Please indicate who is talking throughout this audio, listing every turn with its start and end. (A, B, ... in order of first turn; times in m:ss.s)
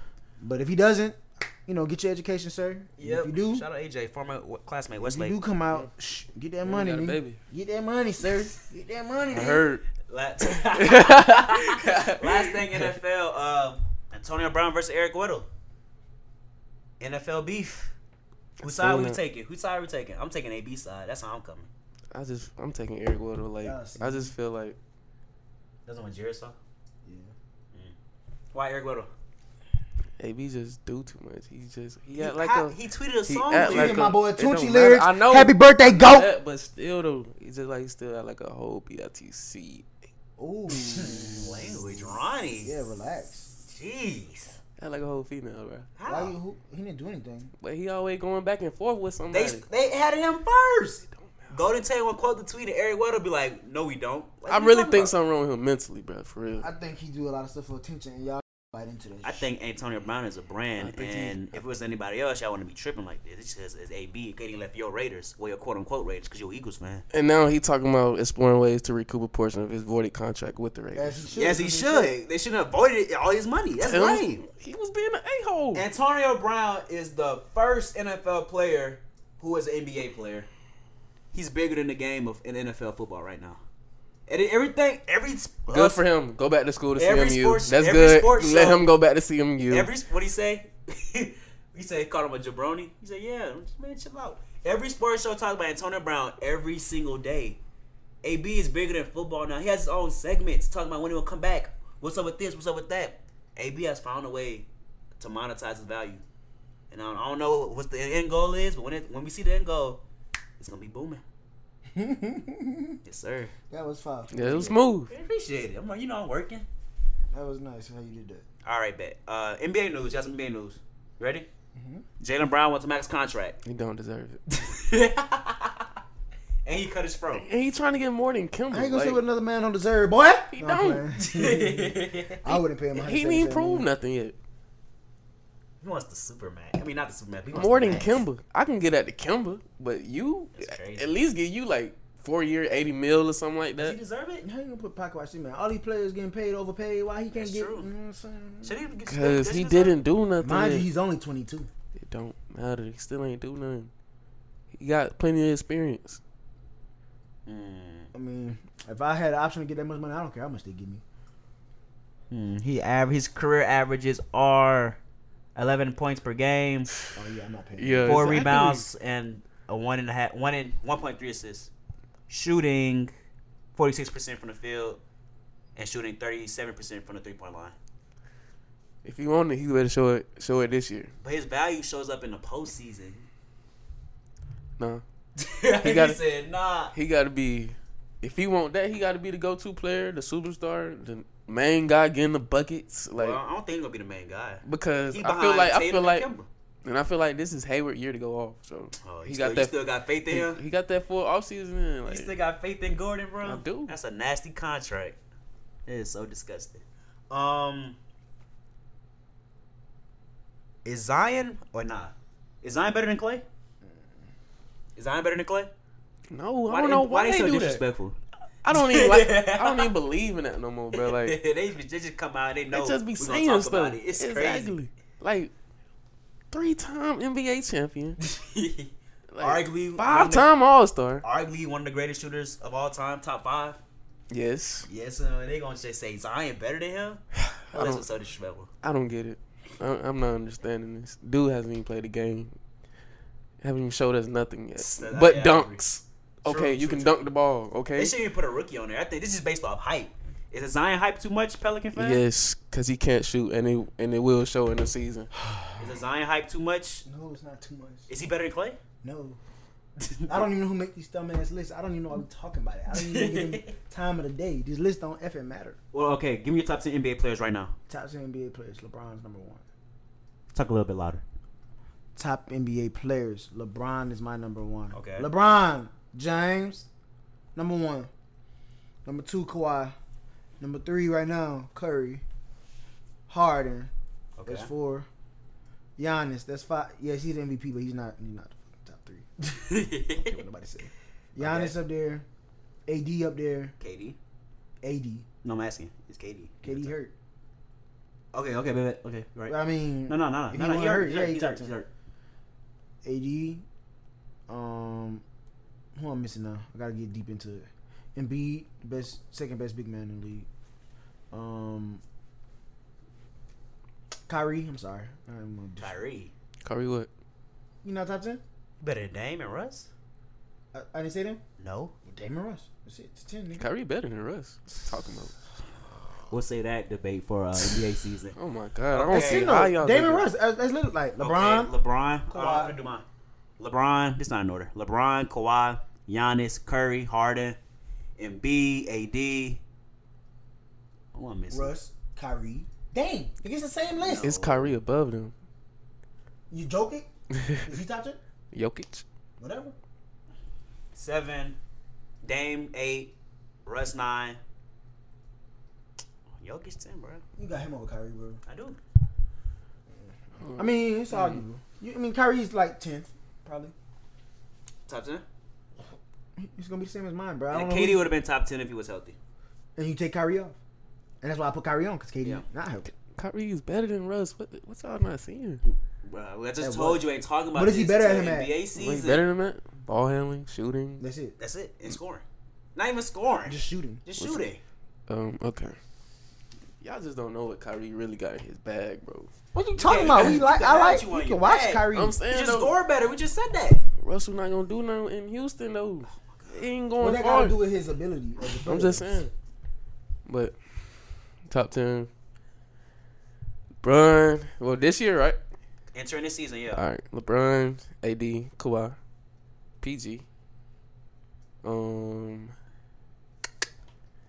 0:00.4-0:03.6 A
0:03.0-0:05.4 B
0:05.0-0:09.6 A
0:06.6-0:07.4 C
0:09.3-0:09.8 C
0:10.1-0:15.5 B
0:10.5-0:12.8 C
0:17.0-0:17.9 B
0:18.6-0:19.2 C
0:18.6-0:21.7 B
0:22.1-0:24.8 C
0:23.6-0:24.3 A
0:25.9-0:26.6 B
0:27.0-0:27.3 A
0:28.5-0:29.1 B
0:30.2-0:39.9 C
0:32.2-0:34.1 B
0:33.6-0:36.3 A
0:40.4-0:42.1 A
0:40.7-0:42.8 B
0:42.6-0:43.5 A
0:43.6-0:44.6 B
0:44.8-0:45.9 C
0:46.0-0:46.3 B
0:46.1-0:47.5 A
0:47.6-0:49.6 C
0:49.3-0:55.2 B
0:51.2-0:51.6 C
0:54.5-0:56.7 C
0:56.6-0:59.5 A
0:59.2-1:07.0 B
1:00.8-1:01.6 C
1:07.1-1:11.4 C
1:10.9-1:12.1 A
1:11.4-1:14.4 B
1:13.8-1:15.9 C
1:15.7-1:20.5 B
1:21.3-1:23.6 B
1:24.3-1:26.0 B
1:25.7-1:29.9 C
1:27.0-1:28.9 B
1:29.7-1:37.6 B
1:38.2-1:44.7 B
1:45.2-1:46.2 B
1:46.9-1:50.0 B
1:50.6-1:51.2 B
1:51.9-1:53.0 A
1:53.0-1:53.5 B
1:53.7-1:54.8 A
1:54.3-1:55.1 C
1:55.1-1:56.7 B
1:57.3-1:58.4 A
1:58.6-2:01.5 B
2:01.8-2:02.0 A
2:02.2-2:03.6 B
2:03.6-2:04.4 C
2:04.5-2:05.9 B
2:06.7-2:07.5 B
2:07.4-2:09.2 C
2:08.7-2:13.9 A
2:10.5-2:11.0 C
2:11.2-2:12.4 B
2:12.9-2:14.4 C
2:15.8-2:18.2 B
2:17.5-2:24.0 C
2:20.6-2:21.1 B
2:23.8-2:24.5 B
2:24.4-2:28.8 A
2:27.3-2:27.9 B
2:28.6-2:30.0 B
2:29.1-2:30.9 C
2:30.4-2:31.7 A
2:32.0-2:33.9 C
2:34.7-2:36.2 C
2:37.5-2:38.1 B
2:38.1-2:41.0 A
2:42.3-2:45.0 B
2:45.6-2:46.9 B
2:47.1-2:48.5 A
2:47.8-2:48.9 C
2:48.0-2:51.7 B
2:52.3-2:53.1 B
2:53.8-2:55.0 B
2:55.8-2:57.8 B
2:59.0-3:01.1 C
3:01.2-3:03.2 B
3:05.4-3:06.9 B
3:05.8-3:06.2 C
3:06.9-3:13.4 C
3:13.2-3:16.5 B
3:14.6-3:16.3 C
3:16.8-3:22.3 C
3:19.0-3:20.6 B
3:22.1-3:25.2 B
3:23.4-3:23.9 C
3:25.9-3:28.0 B
3:30.8-3:33.4 B
3:35.0-3:35.7 B
3:36.3-3:37.8 C
3:36.7-3:38.2 B
3:38.6-3:41.4 C
3:38.7-3:39.9 B
3:40.9-3:44.8 B
3:42.7-3:45.5 C
3:46.5-3:48.2 C
3:48.2-3:50.5 B
3:49.3-3:51.2 C
3:51.2-3:53.8 B
3:54.3-3:54.9 C
3:54.9-3:57.2 B
3:57.5-3:58.0 C
3:57.7-3:58.7 B
3:58.8-4:02.6 C
4:03.6-4:08.2 C
4:04.8-4:05.8 B
4:06.4-4:07.3 B
4:07.9-4:12.2 B
4:12.0-4:15.3 C
4:15.8-4:17.0 B
4:17.0-4:18.1 A
4:18.1-4:18.8 B
4:19.0-4:19.4 A
4:20.0-4:20.4 B
4:20.3-4:25.8 A
4:22.9-4:23.7 B
4:25.9-4:27.7 B
4:27.9-4:29.6 A
4:30.5-4:31.2 B
4:32.2-4:36.9 A
4:34.9-4:35.3 B
4:37.6-4:38.1 A
4:39.0-4:40.0 A
4:40.6-4:42.2 A
4:43.3-4:43.9 A
4:44.4-4:44.7 B
4:44.5-4:45.1 A
4:46.0-4:49.3 A
4:49.5-4:50.4 B
4:50.1-4:52.2 A
4:51.4-4:51.8 B
4:52.9-4:53.7 A
4:53.8-4:54.2 B
4:54.8-4:55.3 A
4:55.4-4:56.9 B
4:56.6-4:57.1 A
4:58.3-5:01.9 B
4:59.5-5:01.7 A
5:03.0-5:03.6 A
5:04.5-5:05.2 A
5:06.0-5:10.5 A
5:11.3-5:12.0 A
5:14.3-5:15.9 A
5:15.8-5:16.3 B
5:16.6-5:17.1 C
5:17.8-5:18.4 A
5:18.8-5:19.9 B
5:20.7-5:21.4 A
5:21.6-5:22.0 B
5:22.1-5:23.7 A
5:23.6-5:25.3 C
5:26.3-5:28.4 B
5:28.4-5:30.3 C
5:28.9-5:29.6 B
5:29.1-5:31.7 A
5:31.2-5:33.0 B
5:32.3-5:32.8 A
5:33.6-5:37.6 B
5:38.2-5:39.6 B
5:41.1-5:41.7 B
5:41.5-5:44.3 A
5:44.0-5:44.8 B
5:44.2-5:45.3 C
5:46.5-5:47.1 A
5:47.6-5:48.2 A
5:48.5-5:49.0 C
5:49.4-5:49.8 A
5:51.0-5:51.6 B
5:52.2-5:53.1 B
5:53.7-5:54.4 B
5:56.4-5:57.2 B
5:57.4-5:58.4 A
5:58.5-5:58.8 B
6:00.0-6:03.7 A
6:00.4-6:01.4 C
6:04.9-6:05.2 B
6:06.4-6:08.1 A
6:07.5-6:09.2 B
6:09.8-6:10.6 A
6:11.2-6:12.9 A
6:13.1-6:15.6 C
6:15.7-6:19.2 B
6:16.6-6:18.5 A
6:18.8-6:21.0 C
6:21.0-6:21.4 A
6:21.4-6:22.2 B
6:22.8-6:24.6 B
6:23.5-6:24.0 A
6:24.2-6:24.5 C
6:25.1-6:25.8 C
6:26.8-6:29.3 C
6:29.5-6:32.2 A
6:29.8-6:33.8 B
6:31.9-6:32.7 C
6:34.0-6:37.6 C
6:36.3-6:36.6 B
6:37.0-6:39.2 A
6:38.6-6:39.3 C
6:40.3-6:41.0 C
6:41.5-6:42.1 C
6:43.8-6:45.4 C
6:45.9-6:46.8 B
6:46.8-6:49.0 C
6:49.8-6:50.2 C
6:51.6-6:52.5 C